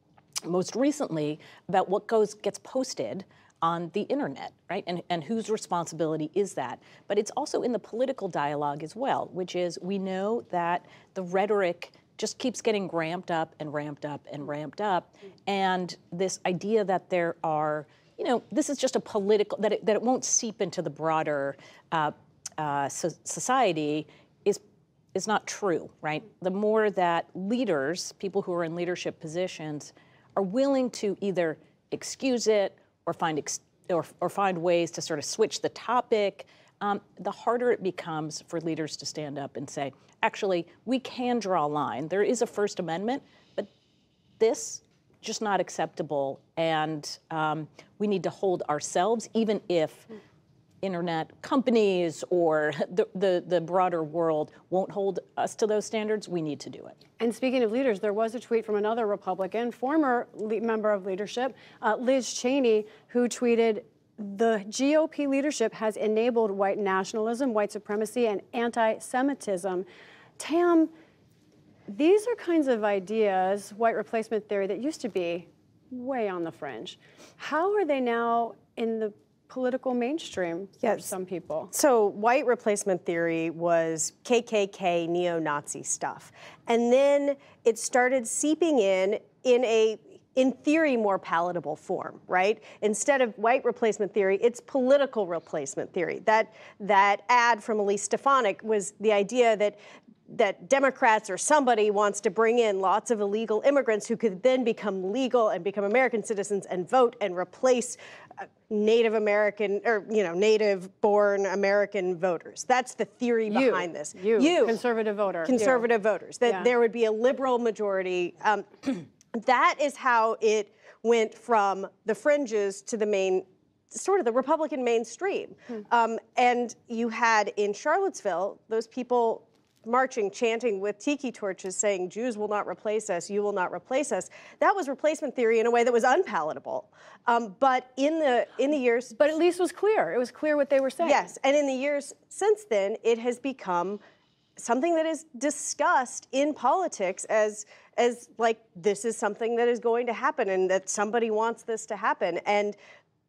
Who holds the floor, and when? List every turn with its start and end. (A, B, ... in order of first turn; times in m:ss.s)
0:00.4-0:24.6 A
0:25.1-0:43.7 A
0:44.4-0:50.1 A
0:50.8-0:57.0 A
0:57.2-1:09.8 B
1:10.4-1:10.9 B
1:11.9-1:21.7 B
1:20.8-1:21.1 C
1:21.7-1:48.0 C
1:48.6-1:54.8 C
1:53.5-1:55.9 B
1:55.4-2:19.3 C
1:56.4-1:56.7 B
2:19.1-2:21.3 B
2:21.0-2:24.0 C
2:24.6-2:32.8 C